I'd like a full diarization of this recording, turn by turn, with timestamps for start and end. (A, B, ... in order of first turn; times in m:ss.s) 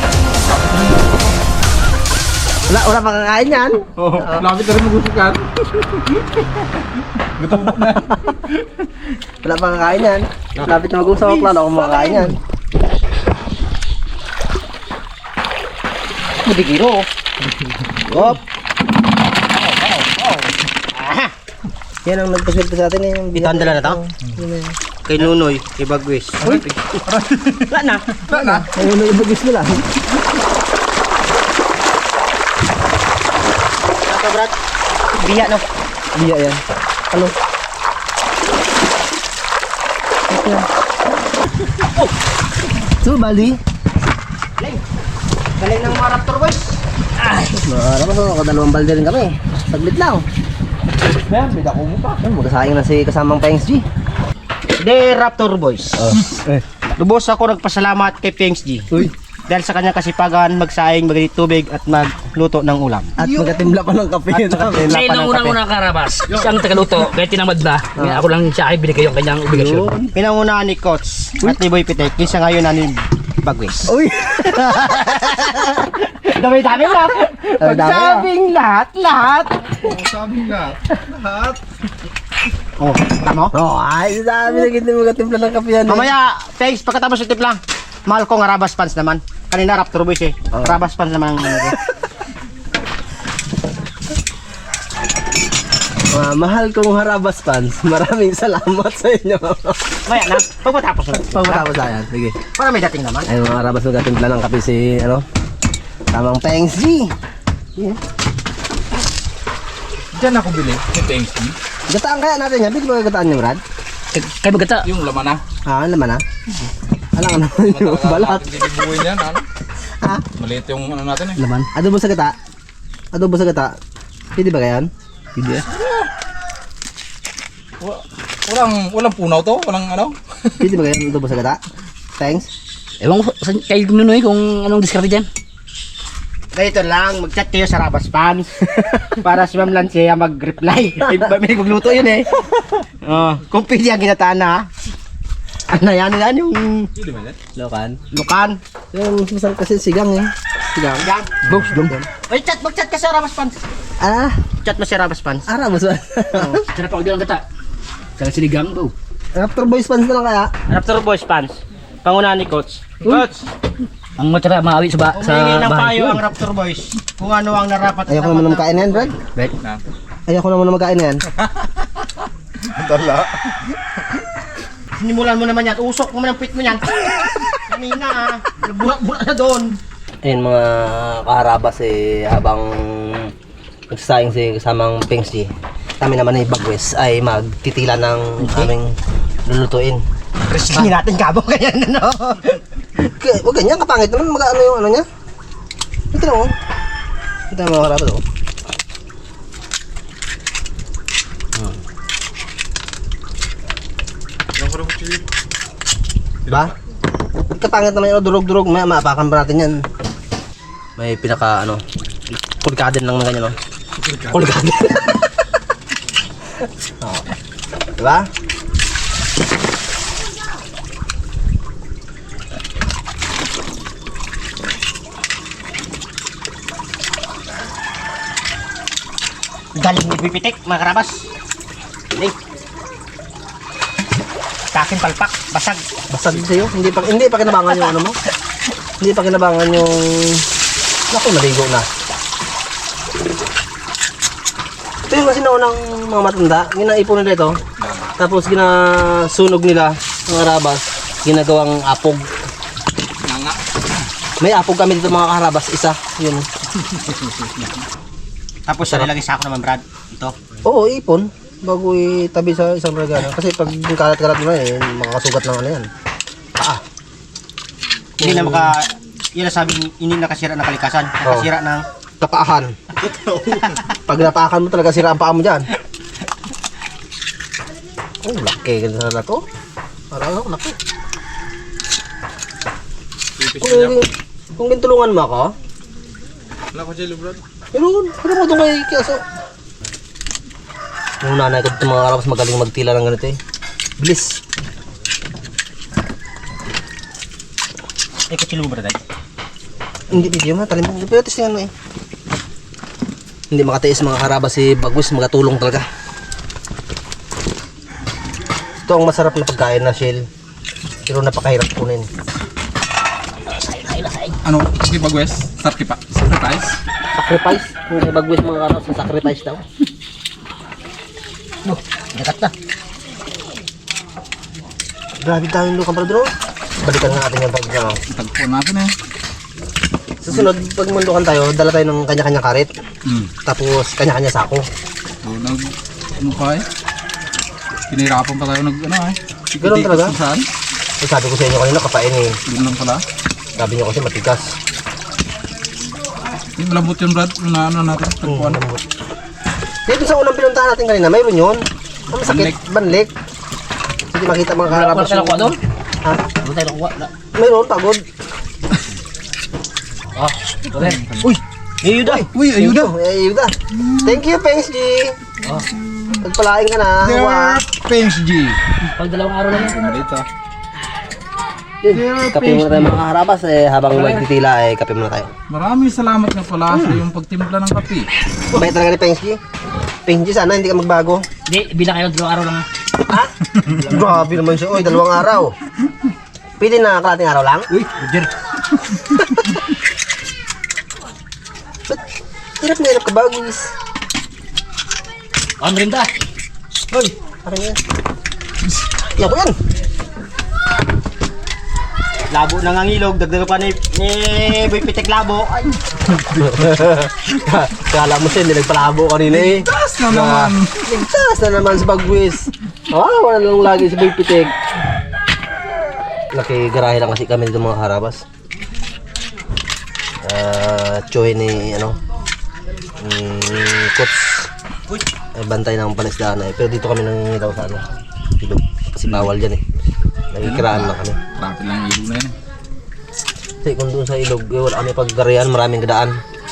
0:00.5-0:01.3 A
0:02.7-0:04.5 B
0:04.0-0:06.7 A
0:07.2-0:08.8 A
0:09.4-0:12.4 B
0:11.2-0:12.4 C
0:16.4-0:17.1 C
0:19.5-0:21.3 C
0:22.0-0:24.8 B
0:23.4-0:24.0 C
0:25.0-0:27.0 C
0:26.4-0:28.7 A
0:27.7-0:28.6 C
0:28.6-0:29.9 B
0:34.1-0:34.6 C
0:35.1-0:35.6 C
0:36.2-0:37.4 B
0:40.3-0:40.7 B
0:43.0-0:43.6 B
0:44.6-0:44.8 C
0:45.6-0:46.8 C
0:47.2-0:47.6 D
0:47.5-0:50.3 B
0:51.3-0:52.1 C
0:52.1-0:53.8 B
0:54.8-0:56.2 C
0:56.0-0:56.6 B
0:57.0-0:58.9 C
0:59.5-1:03.1 C
1:03.2-1:05.1 B
1:04.3-1:05.6 C
1:04.8-1:09.9 D
1:08.0-1:08.3 B
1:09.5-1:10.2 B
1:10.1-1:13.9 C
1:13.9-1:15.8 B
1:14.5-1:19.8 C
1:17.6-1:18.3 B
1:19.8-1:21.6 A
1:22.8-1:23.5 C
1:23.5-1:26.1 B
1:25.9-1:31.8 C
1:30.5-1:30.8 B
1:36.1-1:40.0 B
1:40.1-1:41.7 C
1:41.1-1:42.4 B
1:42.5-1:43.3 C
1:43.3-1:45.2 B
1:46.1-1:47.1 B
1:50.1-1:51.6 A
1:51.9-1:53.6 B
1:54.1-1:54.9 D
1:54.8-1:55.4 A
1:55.6-1:56.2 B
1:57.2-1:58.4 B
1:57.6-1:59.4 A
2:00.4-2:01.4 A
2:01.4-2:01.7 D
2:01.7-2:02.4 B
2:03.1-2:03.8 B
2:04.4-2:04.9 B
2:05.4-2:05.7 D
2:05.8-2:06.1 A
2:07.8-2:10.6 A
2:10.6-2:11.6 B
2:12.2-2:12.5 B
2:13.0-2:15.3 D
2:16.5-2:18.6 C
2:18.7-2:19.2 B
2:19.2-2:22.5 C
2:23.0-2:24.7 C
2:25.7-2:26.9 C
2:27.0-2:27.4 A
2:27.5-2:28.0 B
2:28.1-2:28.6 C
2:28.9-2:32.1 B
2:31.0-2:33.6 C
2:34.0-2:34.4 B
2:34.6-2:35.5 C
2:35.5-2:36.6 B
2:36.4-2:36.6 C
2:36.7-2:37.4 D
2:38.2-2:38.9 D
2:39.4-2:40.5 B
2:40.7-2:43.5 C
2:44.2-2:46.2 D
2:45.2-2:49.2 C
2:48.1-2:49.5 B
2:50.3-2:51.2 B
2:51.4-2:52.1 A
2:52.6-2:53.8 A
2:55.0-2:59.8 C
3:00.2-3:03.3 B
3:03.9-3:05.5 B
3:06.0-3:08.9 B
3:08.4-3:08.7 C
3:09.5-3:10.0 B
3:10.5-3:12.6 C
3:13.0-3:15.1 B
3:16.1-3:16.5 B
3:17.5-3:18.2 B
3:24.6-3:25.2 A
3:26.5-3:26.7 B
3:27.5-3:29.8 B
3:31.0-3:31.8 B
3:32.4-3:33.6 B
3:34.0-3:34.6 A
3:34.3-3:35.3 B
3:37.0-3:37.3 B
3:38.0-3:38.3 B
3:49.8-3:51.3 C
3:54.7-3:55.8 C
3:56.1-3:58.2 B
3:59.0-4:00.4 B
4:01.1-4:01.9 B
4:05.1-4:07.6 B
4:07.8-4:08.2 A
4:08.2-4:12.3 B
4:13.2-4:13.6 A
4:14.4-4:16.5 B
4:16.8-4:17.7 A
4:18.7-4:20.4 C
4:18.9-4:19.1 B
4:20.6-4:25.9 B
4:26.6-4:26.8 B
4:28.2-4:28.7 B
4:28.2-4:31.9 C
4:32.2-4:32.8 B
4:33.0-4:33.8 C
4:34.1-4:35.7 B
4:38.2-4:39.4 B
4:40.1-4:40.8 B
4:43.4-4:44.0 A
4:43.6-4:45.5 B
4:46.7-4:47.4 A
4:47.7-4:49.2 B
4:51.2-4:53.4 B
4:54.0-4:54.4 B
4:58.3-4:59.0 C
5:00.1-5:01.7 B
5:03.5-5:05.9 B
5:08.8-5:10.3 B
5:11.1-5:12.1 B
5:13.5-5:14.4 D
5:14.4-5:16.8 A
5:17.2-5:19.6 B
5:21.7-5:22.5 C
5:25.2-5:28.0 B
5:28.1-5:28.9 A
5:30.2-5:32.7 B
5:33.1-5:33.3 A
5:33.4-5:34.7 B
5:35.2-5:36.7 A
5:37.9-5:40.5 A
5:39.6-5:40.2 B
5:41.0-5:42.4 B
5:42.5-5:43.0 A
5:43.6-5:44.6 B
5:46.6-5:48.6 A
5:48.2-5:48.8 B
5:49.9-5:53.1 B
5:52.2-5:52.6 A
5:54.1-5:56.2 B
5:54.7-5:55.6 D
5:56.4-5:57.1 D
5:57.3-5:58.0 B
6:00.2-6:01.0 D
6:00.8-6:01.3 A
6:01.8-6:02.3 C
6:02.0-6:05.2 B
6:02.1-6:02.9 A
6:03.8-6:04.2 A
6:05.9-6:06.2 A
6:06.2-6:07.7 B
6:07.0-6:08.6 A
6:08.9-6:09.8 D
6:09.5-6:10.3 A
6:11.8-6:15.3 B
6:11.9-6:13.0 A
6:13.9-6:14.2 D
6:15.5-6:18.1 A
6:16.7-6:17.0 B
6:18.5-6:19.4 B
6:20.0-6:21.2 B
6:21.5-6:22.7 D
6:23.1-6:25.6 B
6:26.6-6:27.7 B
6:27.7-6:28.3 D
6:32.6-6:33.7 B
6:35.6-6:36.1 D
6:37.4-6:37.8 B
6:39.0-6:39.6 B
6:42.3-6:45.8 C
6:46.2-6:46.7 A
6:46.4-6:54.5 B
6:49.3-6:51.0 A
6:56.3-6:58.2 B
7:00.2-7:02.0 B
7:03.0-7:04.5 B
7:05.4-7:07.8 B
7:08.4-7:09.6 B
7:10.3-7:11.2 B
7:10.4-7:12.4 A
7:13.6-7:16.2 B